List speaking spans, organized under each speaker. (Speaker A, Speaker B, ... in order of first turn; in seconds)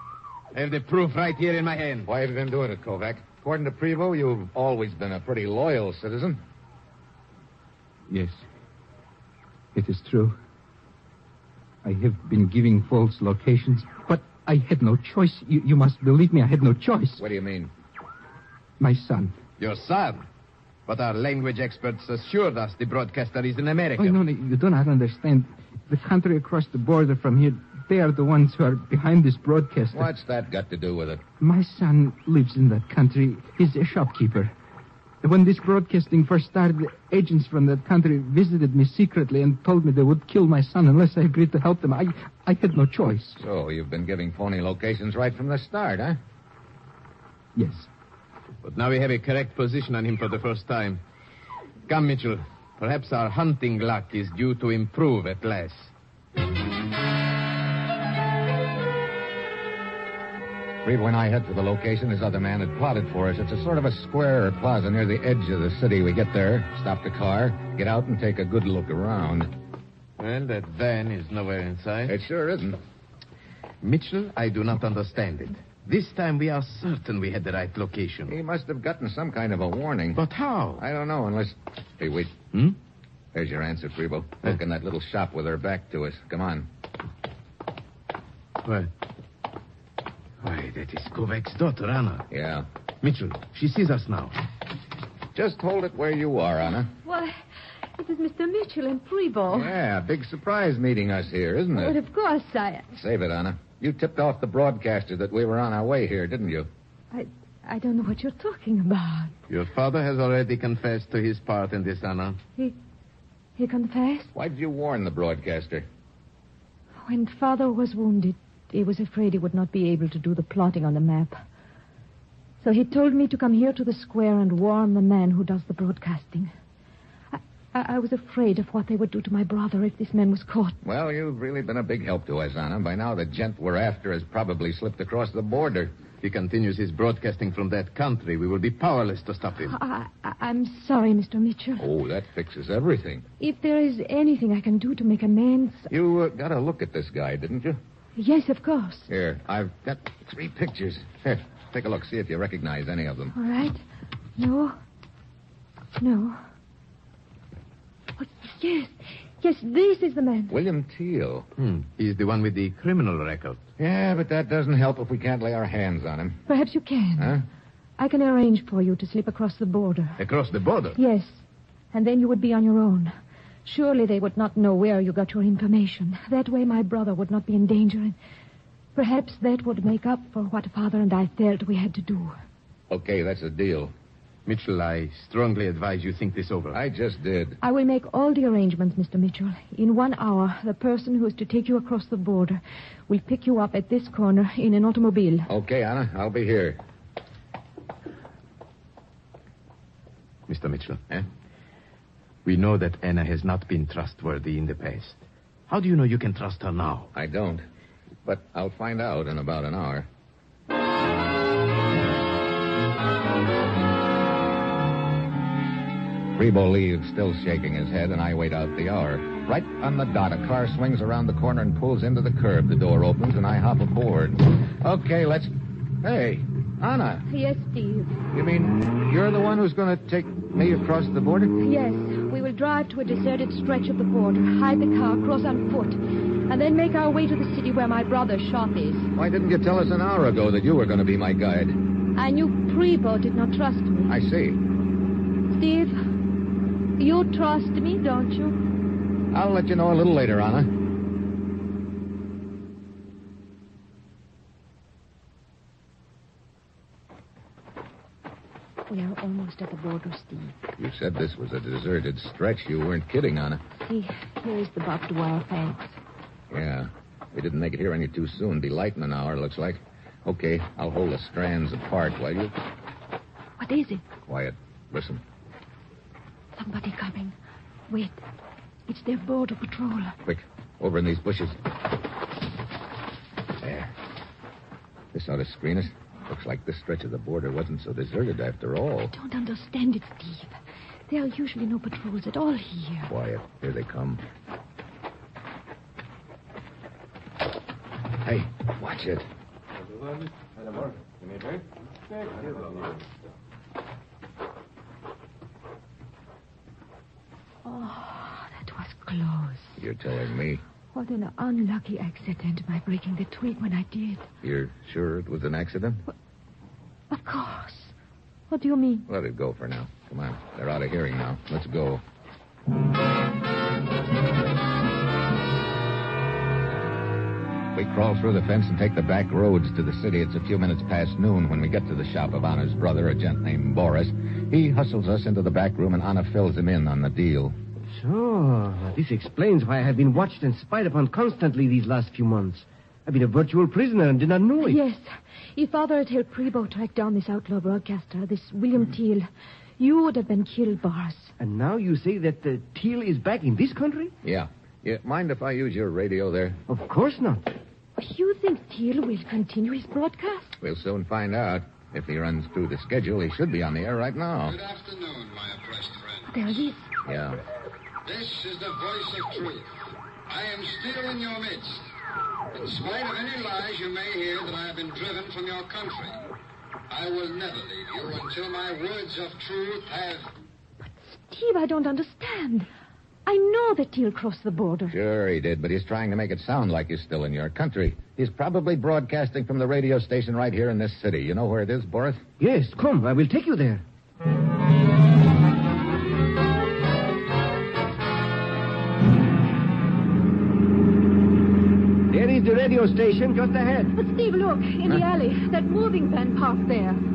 Speaker A: 0.5-2.1, 19.6-20.3, 20.9-24.2, 48.6-51.0, 51.9-55.9, 70.2-72.2, 73.8-78.4, 80.2-80.8, 88.6-88.9, 90.4-92.3, 93.0-94.3, 109.5-112.4, 136.2-139.8, 161.6-163.6, 170.2-171.0, 184.5-186.8, 200.5-201.0, 202.4-207.1
Speaker B: 2.1-6.4, 17.2-17.7, 29.9-31.2, 43.4-46.2, 60.8-69.5, 72.1-72.8, 78.3-80.2, 80.8-82.4, 83.3-86.7, 92.3-92.7, 95.3-96.9, 99.5-102.0, 102.9-106.7, 114.3-115.9, 130.8-135.9, 141.8-143.2, 145.9-147.8, 149.1-153.3, 160.5-161.5, 163.8-166.4, 167.2-167.4, 182.9-183.9, 186.7-187.6, 195.5-196.8, 207.2-207.7, 208.2-210.1, 216.3-225.5, 226.0-227.2, 228.3-231.5, 239.2-241.8, 244.1-244.6, 249.3-250.7, 260.8-263.6, 266.5-272.6, 274.3-275.2, 280.2-281.6, 283.6-283.9, 285.1-289.1, 293.1-294.2, 298.2-299.3, 309.8-310.6, 314.4-316.0, 319.1-322.0, 327.8-337.6, 354.2-356.6, 360.6-364.6, 367.1-367.4, 384.9-392.2
Speaker C: 8.1-8.4, 9.8-10.4, 11.8-17.2, 18.8-19.4, 24.0-30.1, 31.4-34.5, 35.2-43.4, 47.6-47.9
Speaker D: 97.0-97.4, 98.0-99.8, 101.8-102.9, 107.1-109.3, 113.6-114.3, 117.0-121.4, 122.6-126.5, 127.3-130.8, 139.6-141.9, 143.4-145.9, 148.2-149.1, 153.3-153.8, 154.4-154.8, 156.0-156.4, 158.2-160.6, 166.5-167.4, 168.0-170.2, 170.9-171.4, 171.9-173.1, 173.7-178.2, 178.9-182.4, 187.6-195.5, 227.3-228.1, 231.6-239.1, 242.2-244.2, 245.5-246.0, 247.0-248.6, 258.9-260.6, 263.8-266.0, 273.6-274.0, 276.6-277.4, 277.9-278.2, 278.9-280.2, 289.1-290.6, 291.1-293.1, 307.6-309.8, 310.9-314.3, 317.1-317.9, 318.5-319.1, 344.6-349.3, 349.8-351.3, 358.0-360.6, 366.3-366.9, 380.8-382.7, 383.3-384.9, 403.9-407.0
Speaker E: 337.9-344.8, 351.4-354.1, 356.7-357.6, 392.4-393.8, 402.1-403.9
Speaker F: 364.4-366.3, 368.0-369.7, 370.3-371.9, 372.5-376.3, 376.9-380.3